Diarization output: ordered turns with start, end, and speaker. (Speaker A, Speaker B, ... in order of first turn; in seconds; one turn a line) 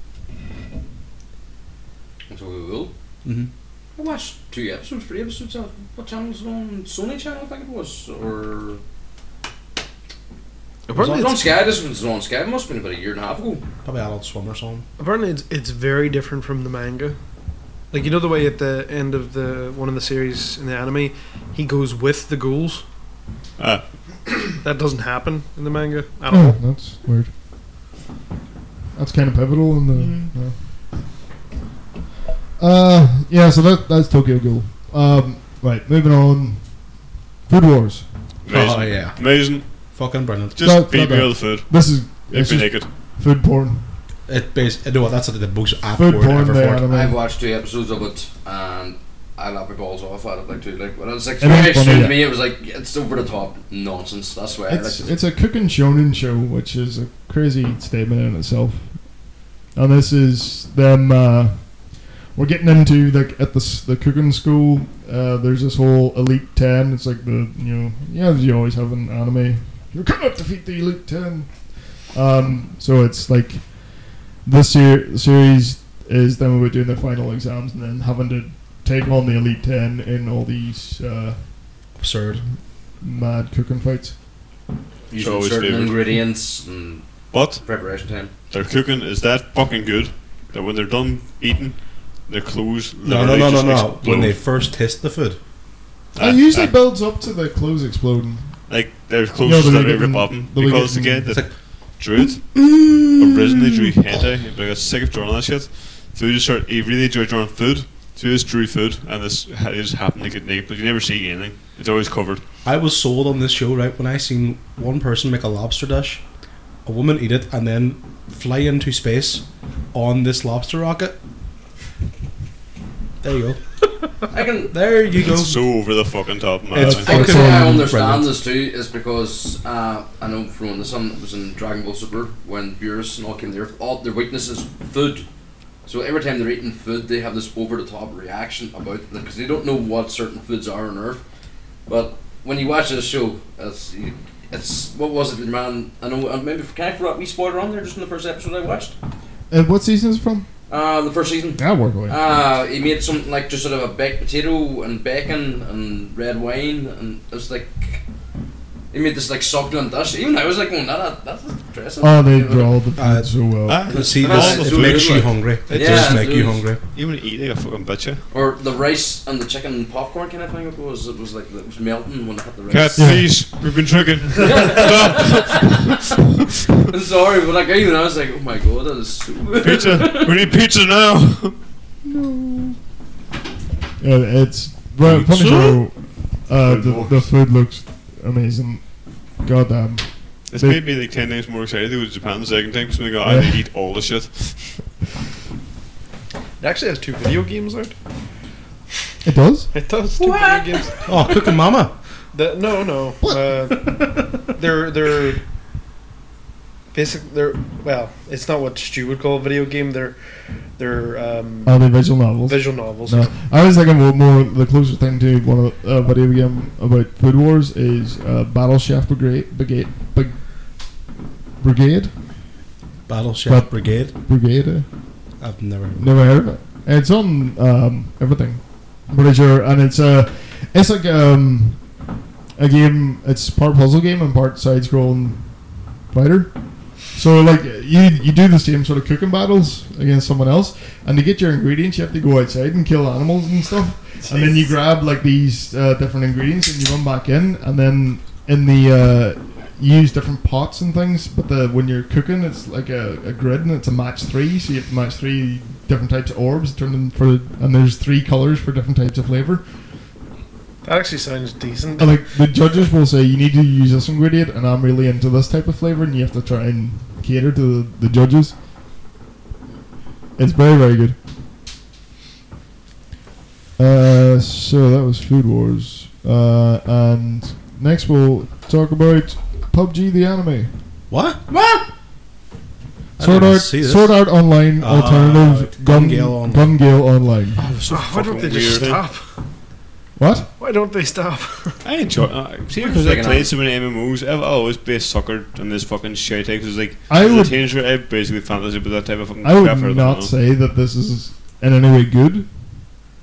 Speaker A: 2.3-2.9
Speaker A: 4.0-8.8
Speaker B: 10.9-11.2
Speaker C: 10.9-11.5
Speaker A: 11.0-13.7
Speaker C: 13.8-14.8
Speaker B: 15.0-17.2
Speaker B: 17.9-22.8
Speaker D: 23.6-23.8
Speaker B: 24.6-26.6
Speaker E: 26.3-27.3
Speaker E: 28.9-30.7
Speaker D: 29.9-30.3
Speaker E: 32.6-38.1
Speaker D: 38.4-39.9
Speaker C: 38.5-40.6
Speaker D: 40.5-42.9
Speaker E: 40.6-43.9
Speaker C: 44.3-46.9
Speaker E: 45.9-47.1
Speaker A: 46.9-55.1
Speaker E: 51.4-52.2
Speaker E: 54.7-81.8
Speaker C: 81.9-82.4
Speaker E: 83.0-84.2
Speaker A: 85.1-88.3
Speaker D: 85.1-86.2
Speaker D: 87.3-87.7
Speaker D: 88.5-94.4
Speaker C: 93.0-95.4
Speaker D: 96.1-96.8
Speaker E: 96.2-98.6
Speaker D: 98.7-112.4
Speaker E: 99.4-101.3
Speaker C: 101.3-101.5
Speaker C: 102.2-103.9
Speaker C: 112.6-116.2
Speaker C: 116.8-121.2
Speaker C: 123.2-123.6
Speaker A: 124.3-124.7
Speaker C: 124.7-125.7
Speaker D: 125.1-127.3
Speaker C: 126.7-128.3
Speaker E: 126.8-127.8
Speaker A: 126.8-135.2
Speaker A: 135.8-141.2
Speaker A: 141.9-148.9
Speaker E: 149.5-150.5
Speaker A: 150.7-158.0
Speaker E: 151.6-152.2
Speaker A: 158.9-162.8
Speaker E: 162.0-163.9
Speaker C: 162.9-166.8
Speaker D: 163.7-168.2
Speaker A: 163.9-166.7
Speaker A: 168.3-173.3
Speaker D: 172.7-176.1
Speaker E: 173.0-173.3
Speaker A: 174.3-176.0
Speaker A: 176.9-180.3
Speaker D: 179.6-181.6
Speaker E: 182.0-182.8
Speaker E: 184.0-190.8
Speaker C: 185.1-185.7
Speaker D: 186.8-187.1
Speaker D: 190.5-194.8
Speaker E: 193.2-193.6
Speaker B: 196.6-197.9
Speaker E: 199.2-199.7
Speaker B: 199.7-201.4
Speaker A: 200.2-201.5
Speaker C: 201.1-201.9
Speaker B: 202.3-205.4
Speaker B: 206.9-210.2
Speaker B: 210.8-213.3
Speaker E: 211.6-220.5
Speaker E: 221.6-222.1
Speaker C: 223.1-224.1
Speaker E: 223.4-224.9
Speaker C: 225.4-226.1
Speaker E: 225.9-231.9
Speaker E: 232.6-259.6
Speaker B: 260.8-262.4
Speaker E: 262.0-268.5
Speaker E: 270.4-271.2
Speaker E: 273.8-280.8
Speaker C: 281.1-281.8
Speaker A: 281.5-281.8
Speaker C: 283.2-286.8
Speaker E: 283.2-287.6
Speaker C: 287.6-288.1
Speaker D: 287.8-289.0
Speaker B: 287.9-289.4
Speaker E: 290.1-290.5
Speaker B: 290.6-291.8
Speaker D: 291.8-300.3
Speaker A: 292.7-293.5
Speaker E: 297.1-297.6
Speaker E: 299.4-302.9